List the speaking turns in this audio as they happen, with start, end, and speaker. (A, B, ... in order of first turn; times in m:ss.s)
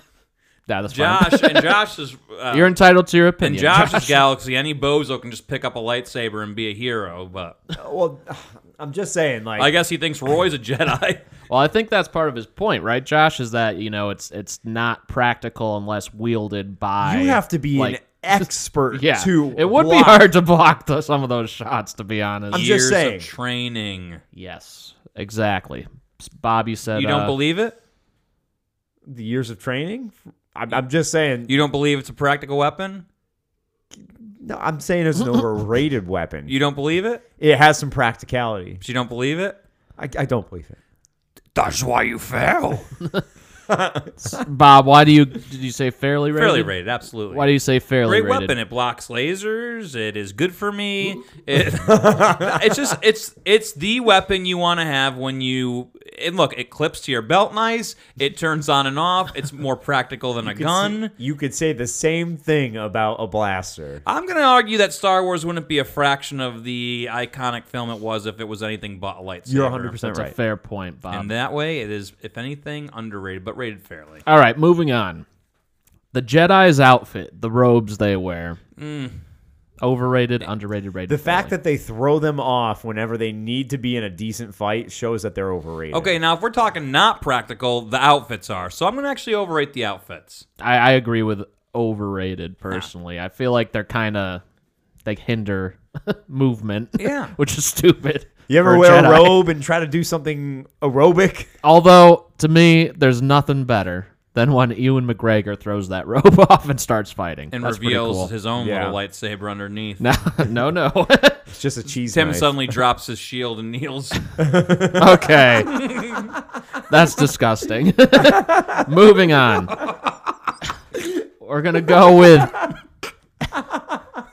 0:00.7-0:01.7 A
0:00.9-0:02.8 B
0:02.5-0:04.2 A
0:03.4-0:07.6 B
0:07.7-0:09.7 C
0:09.6-0:11.3 B
0:11.5-0:22.7 A
0:17.0-0:20.3 C
0:22.5-0:23.3 C
0:22.5-0:24.2 B
0:24.4-0:27.4 A
0:26.9-0:27.8 B
0:29.1-0:31.5 C
0:31.5-0:33.0 B
0:34.0-0:36.6 C
0:36.5-0:37.2 B
0:37.4-0:38.8 C
0:38.8-0:39.6 B
0:40.0-0:40.8 C
0:41.6-0:42.9 B
0:43.7-0:44.1 C
0:44.2-0:46.7 A
0:46.3-1:01.1 B
0:47.3-0:48.5 A
0:51.8-0:52.8 C
1:00.4-1:04.0 C
1:04.1-1:10.0 B
1:09.5-1:10.4 C
1:10.0-1:11.3 A
1:11.1-1:14.2 B
1:14.3-1:15.3 A
1:16.1-1:18.6 A
1:18.8-1:19.2 B
1:19.8-1:21.5 A
1:21.1-1:26.1 C
1:25.9-1:30.5 B
1:30.6-1:34.4 A
1:35.0-1:39.4 A
1:37.0-1:37.4 B
1:38.5-1:41.5 C
1:41.6-1:48.3 A
1:47.5-1:50.0 B
1:48.6-1:49.0 C
1:50.0-1:51.5 A
1:51.5-1:52.5 C
1:52.1-1:54.2 B
1:54.4-1:55.3 C
1:54.9-1:55.7 A
1:55.6-1:56.4 B
1:56.9-1:59.8 A
1:59.8-2:00.1 B
2:01.4-2:02.7 A